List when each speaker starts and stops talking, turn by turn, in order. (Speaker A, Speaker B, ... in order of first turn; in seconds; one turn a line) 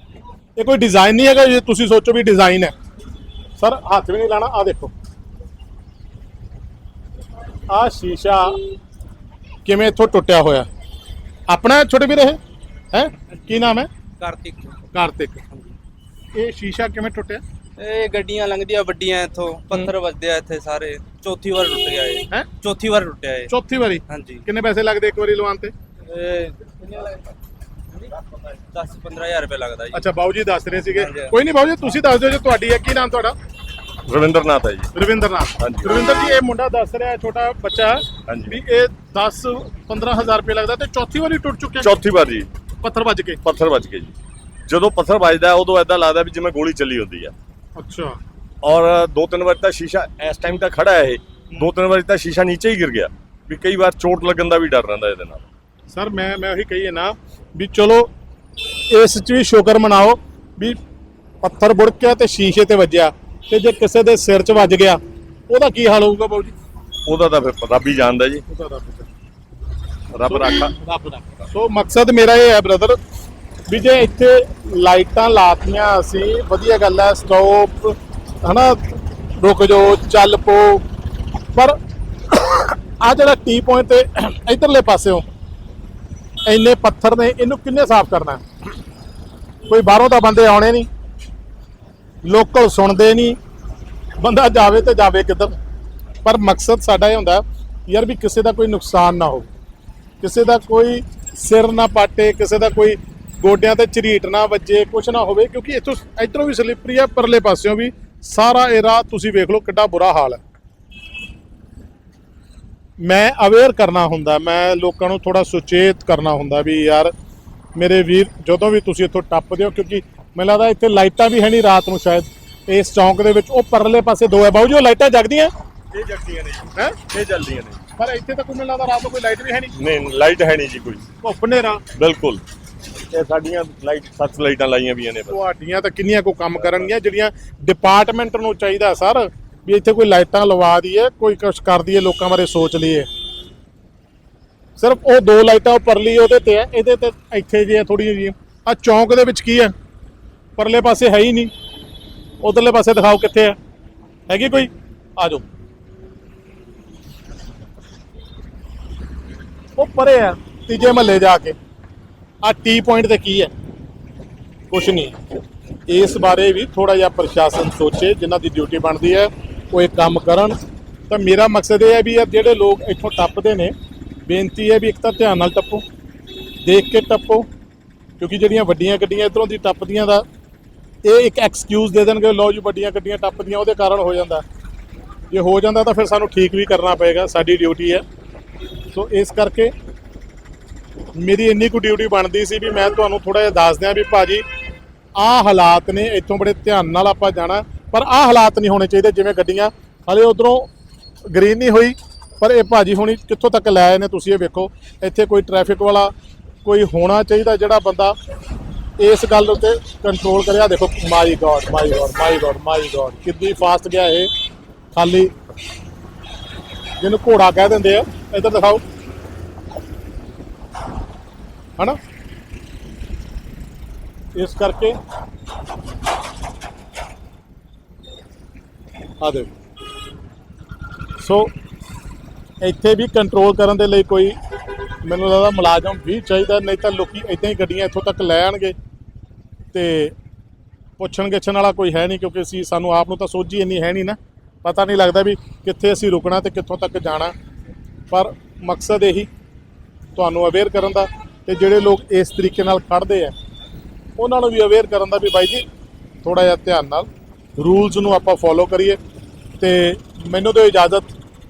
Speaker A: 0.6-2.7
Speaker A: 3.6-4.9
Speaker A: 7.7-8.6
Speaker A: 9.7-10.7
Speaker A: 11.5-12.4
Speaker A: 12.9-13.9
Speaker B: 14.2-14.8
Speaker A: 14.9-15.5
Speaker A: 16.3-17.4
Speaker B: 17.8-23.5
Speaker A: 23.5-25.7
Speaker B: 24.1-24.4
Speaker B: 26.1-27.3
Speaker B: 28.7-30.1
Speaker A: 29.9-33.3
Speaker B: 30.9-31.3
Speaker C: 34.1-34.9
Speaker A: 34.9-41.9
Speaker C: 35.6-36.0
Speaker C: 38.3-38.6
Speaker C: 41.8-42.5
Speaker A: 42.8-43.4
Speaker C: 43.4-44.1
Speaker C: 44.7-47.3
Speaker A: 47.8-48.2
Speaker C: 48.6-55.5
Speaker A: 55.9-58.1
Speaker A: 58.8-60.8
Speaker A: 61.4-66.5
Speaker C: 67.1-68.4
Speaker A: 68.5-69.1
Speaker C: 70.1-70.7
Speaker A: 70.2-73.0
Speaker A: 73.7-80.8
Speaker A: 82.3-85.3
Speaker A: 86.5-88.4
Speaker A: 89.7-90.9
Speaker A: 92.2-93.4
Speaker A: 94.2-95.6
Speaker A: 96.2-99.5
Speaker A: 100.2-110.4
Speaker A: 113.0-117.1
Speaker A: 117.8-125.5
Speaker C: 125.9-127.8
Speaker A: 128.0-129.8
Speaker C: 129.8-131.1
Speaker A: 131.2-131.8
Speaker C: 131.9-132.4
Speaker C: 133.1-135.4
Speaker A: 135.3-143.1
Speaker C: 136.6-136.9
Speaker A: 144.8-149.7
Speaker A: 150.6-151.5
Speaker A: 152.4-153.6
Speaker A: 154.3-155.4
Speaker A: 159.8-161.6
Speaker A: 162.4-163.5
Speaker A: 164.7-165.2
Speaker A: 165.9-170.6
Speaker A: 171.1-173.7
Speaker A: 174.3-175.8
Speaker A: 176.6-177.5
Speaker A: 178.2-180.2
Speaker A: 181.0-184.4
Speaker A: 185.3-188.0
Speaker A: 188.9-189.7
Speaker A: 191.2-194.4
Speaker A: 195.2-200.7
Speaker A: 201.3-206.1
Speaker A: 206.7-208.2
Speaker A: 209.0-214.3
Speaker A: 214.9-215.3
Speaker A: 217.0-218.8
Speaker A: 224.3-225.0
Speaker A: 229.2-229.5
Speaker A: 231.2-231.5
Speaker A: 232.6-234.4
Speaker A: 235.0-238.8
Speaker A: 239.7-240.1
Speaker A: 241.0-247.3
Speaker A: 248.1-249.3
Speaker A: 250.2-253.3
Speaker A: 254.2-255.6
Speaker A: 256.2-259.0
Speaker A: 259.6-261.1